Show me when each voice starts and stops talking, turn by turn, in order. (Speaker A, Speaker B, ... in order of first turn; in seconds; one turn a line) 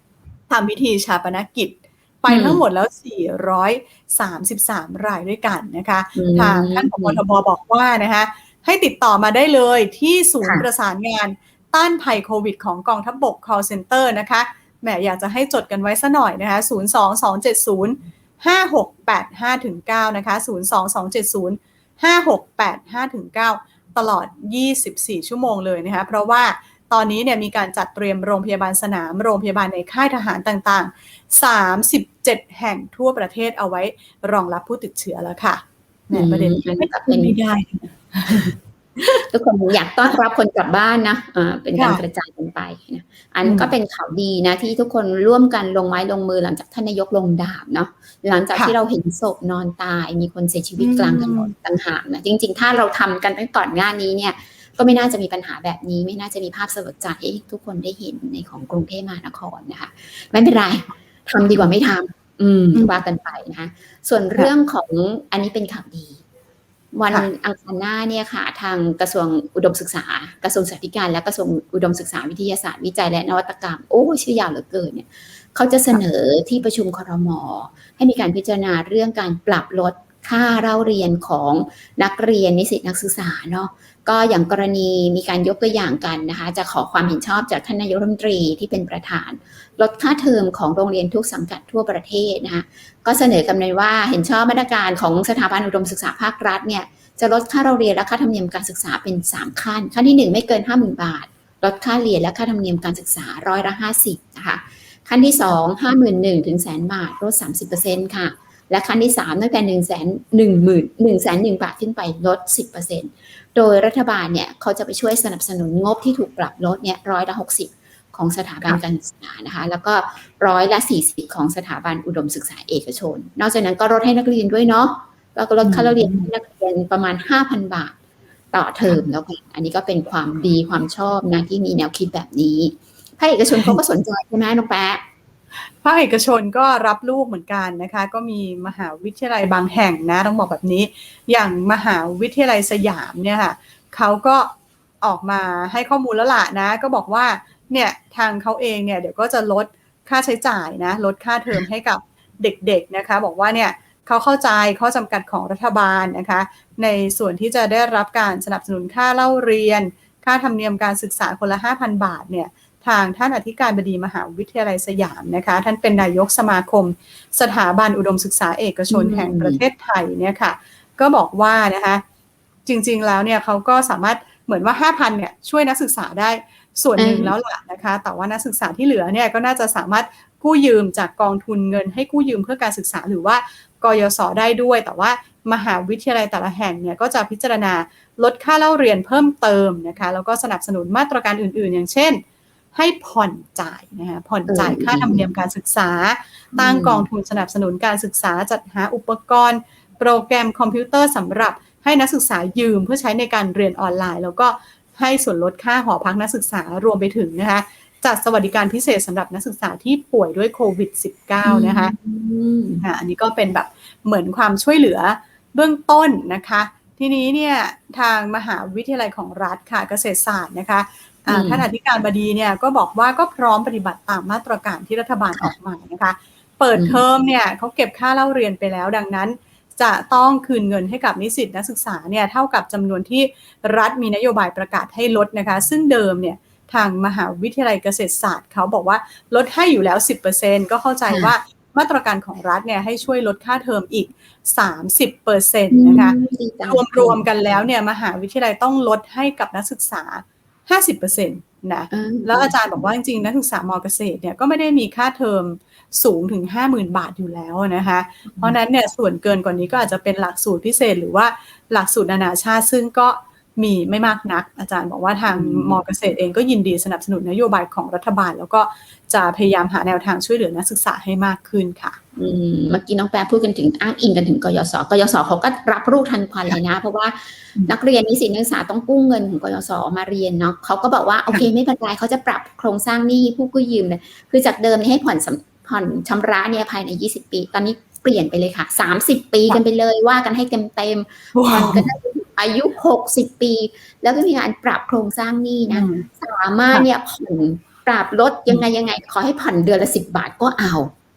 Speaker A: 0.5-39.2
Speaker B: 2.3-2.6
Speaker B: 6.1-7.2
Speaker B: 36.1-37.4
Speaker B: 39.2-66.2
Speaker A: 41.7-42.0
Speaker A: 43.4-43.7
Speaker A: 50.8-51.5
Speaker A: 62.7-63.0
Speaker B: 66.9-127.9
Speaker A: 125.6-126.3
Speaker B: 128.5-135.0
Speaker A: 133.5-133.8
Speaker A: 135.8-172.0
Speaker B: 168.9-169.6
Speaker A: 172.7-192.2
Speaker B: 177.0-177.3
Speaker A: 192.7-211.9
Speaker B: 194.5-195.3
Speaker B: 196.5-197.1
Speaker B: 211.4-212.8
Speaker A: 212.8-272.0
Speaker B: 221.3-221.7
Speaker B: 226.7-227.0
Speaker B: 241.1-241.3
Speaker B: 245.7-247.6
Speaker B: 251.9-252.8
Speaker B: 265.3-265.8
Speaker B: 272.1-300.9
Speaker A: 291.3-291.9
Speaker A: 295.7-296.1